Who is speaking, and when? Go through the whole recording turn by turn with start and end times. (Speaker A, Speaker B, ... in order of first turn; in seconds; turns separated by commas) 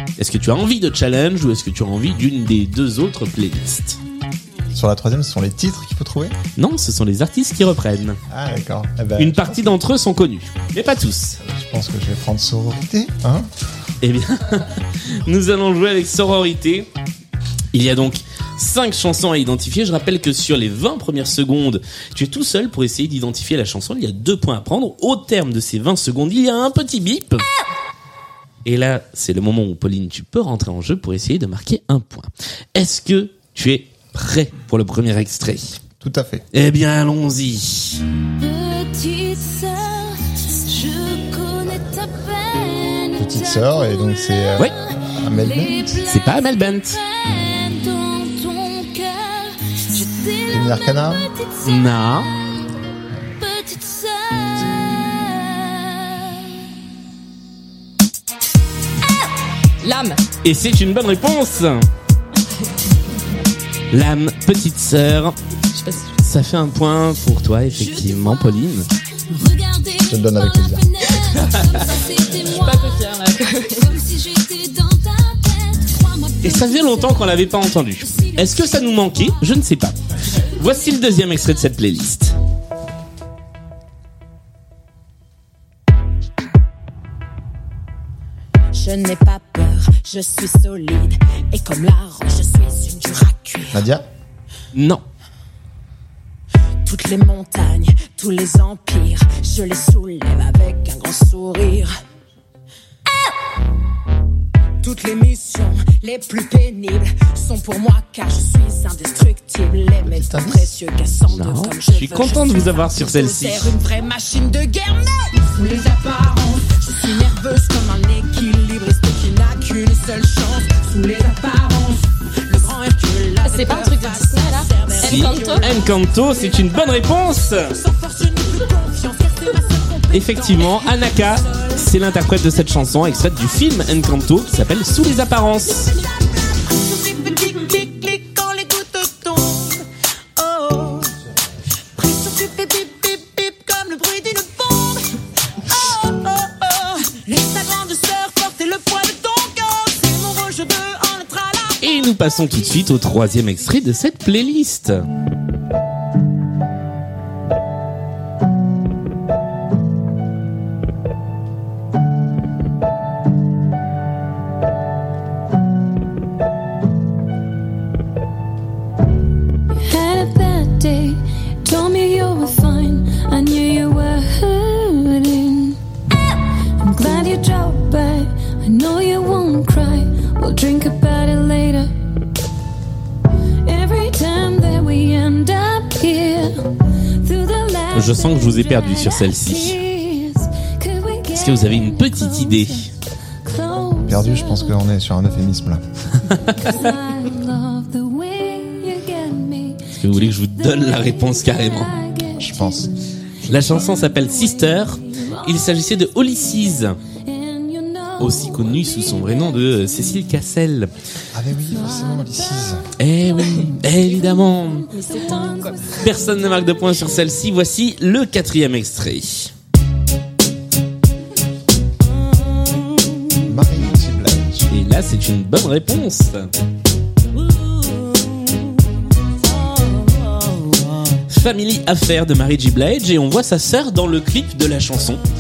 Speaker A: 0.2-4.0, Speaker B: 4.7-6.4, Speaker A: 6.6-8.2, Speaker B: 8.3-9.8, Speaker A: 9.2-11.4, Speaker B: 11.4-13.5, Speaker A: 14.0-16.9, Speaker A: 17.7-27.4, Speaker A: 28.6-35.8, Speaker B: 36.0-36.4, Speaker A: 36.5-38.0, Speaker C: 38.4-44.5, Speaker B: 43.2-46.0, Speaker C: 45.3-51.8, Speaker A: 46.1-47.0, Speaker B: 50.5-51.3, Speaker A: 51.6-52.3, Speaker C: 53.4-56.5, Speaker D: 59.8-60.2, Speaker A: 60.4-61.9, Speaker A: 63.9-65.4, Speaker D: 65.8-66.2, Speaker A: 66.2-68.9, Speaker C: 67.8-68.6, Speaker C: 69.3-73.1, Speaker B: 70.0-70.9, Speaker A: 71.4-71.7, Speaker D: 72.4-73.9, Speaker C: 73.8-77.4, Speaker A: 76.4-82.4, Speaker C: 78.1-78.5, Speaker E: 88.7-93.8, Speaker B: 93.7-94.0, Speaker A: 94.7-95.0, Speaker E: 96.8-101.9, Speaker E: 104.8-126.8, Speaker B: 110.0-110.7, Speaker A: 111.3-113.8, Speaker D: 123.4-125.7, Speaker A: 125.0-127.7, Speaker E: 127.7-131.8, Speaker A: 130.1-135.9, Speaker E: 136.0-139.8, Speaker E: 140.4-141.1, Speaker E: 141.9-145.1, Speaker E: 145.6-152.1, Speaker A: 151.8-155.1, Speaker C: 169.8-175.8, Speaker C: 176.8-181.9, Speaker C: 183.6-192.9, Speaker A: 187.9-189.8, Speaker A: 191.3-192.9, Speaker C: 193.4-194.8, Speaker B: 194.1-195.8, Speaker A: 196.3-196.7, Speaker C: 196.6-202.8, Speaker A: 200.0-201.9, Speaker B: 202.3-202.9, Speaker A: 203.5-207.0, Speaker C: 203.7-205.7, Speaker C: 207.2-209.6, Speaker A: 208.2-210.9, Speaker B: 211.3-212.9, Speaker A: 213.0-214.9, Speaker C: 214.4-216.3, Speaker D: 214.9-216.0, Speaker A: 216.0-219.5, Speaker B: 223.4-224.7, Speaker A: 224.7-226.5, Speaker A: 231.3-235.2